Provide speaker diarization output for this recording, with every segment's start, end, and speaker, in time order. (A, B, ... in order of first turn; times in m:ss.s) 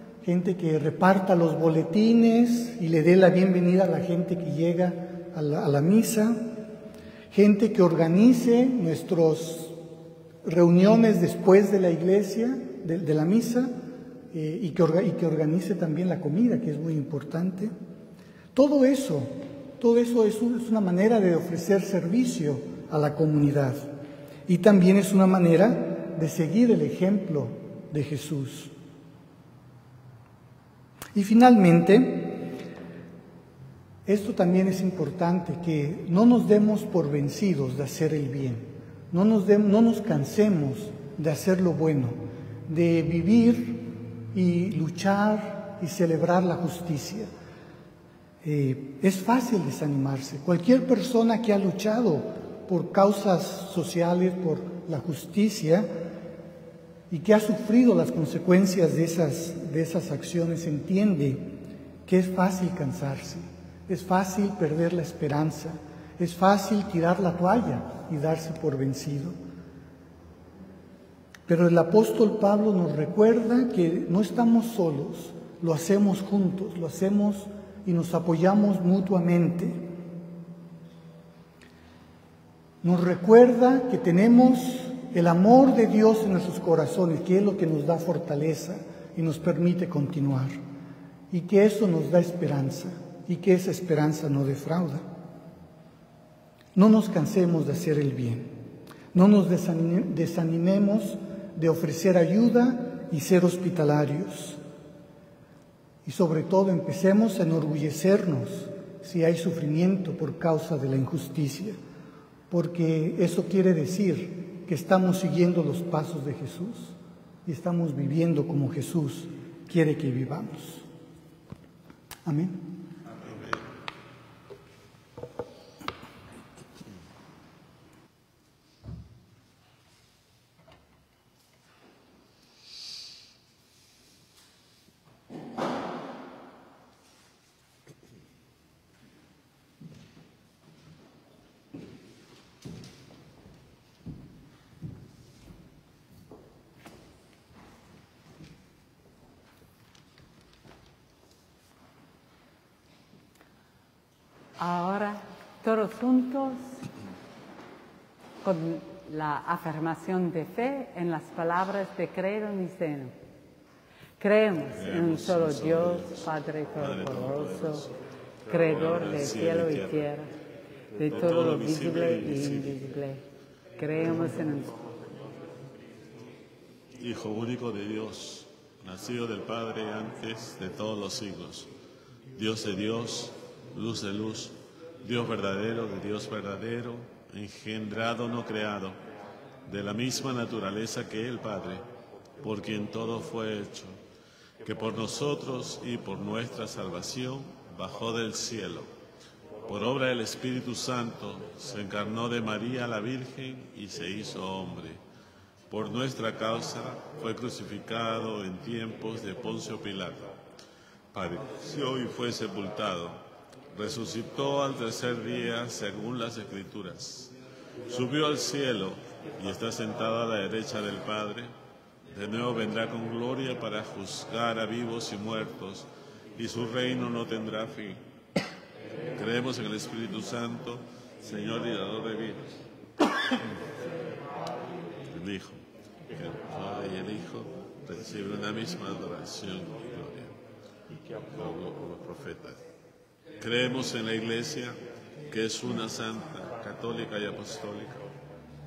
0:00.2-0:06.6 A
0:07.3-0:09.8 A
0:10.4-0:13.7 A
0:14.3-0:17.7 A
0:18.5-0:23.9 A
0:24.5-0:28.7 A
0:31.1-0:32.5 A
0:34.1-0:47.3 A
0:48.4-0:56.1 A
0:57.1-1:09.4 A
1:11.5-1:19.9 A
1:22.8-1:30.6 A
1:31.3-1:35.0 A
1:36.8-1:38.6 A
1:39.1-1:44.6 A
1:46.0-1:51.8 A
1:52.5-2:00.9 A
2:02.2-2:02.7 A
2:03.1-2:03.7 B
2:34.6-2:36.8 C
2:38.4-2:43.1 C
2:44.2-2:47.9 C
2:44.8-2:46.3 B
2:46.8-2:47.9 B
2:48.5-2:50.3 C
2:48.6-2:50.0 B
2:51.0-2:53.2 C
2:51.1-2:52.7 B
2:53.8-2:54.8 C
2:57.0-3:01.7 B
3:02.4-3:09.0 B
3:09.7-3:11.8 B
3:12.4-3:14.0 B
3:14.6-3:18.9 B
3:19.7-3:25.0 B
3:25.7-3:30.4 B
3:31.1-3:33.2 B
3:33.7-3:37.3 B
3:37.8-3:41.5 B
3:42.1-3:48.0 B
3:49.2-3:52.5 B
3:55.1-4:00.4 B
4:01.3-4:02.6 B
4:03.4-4:08.1 B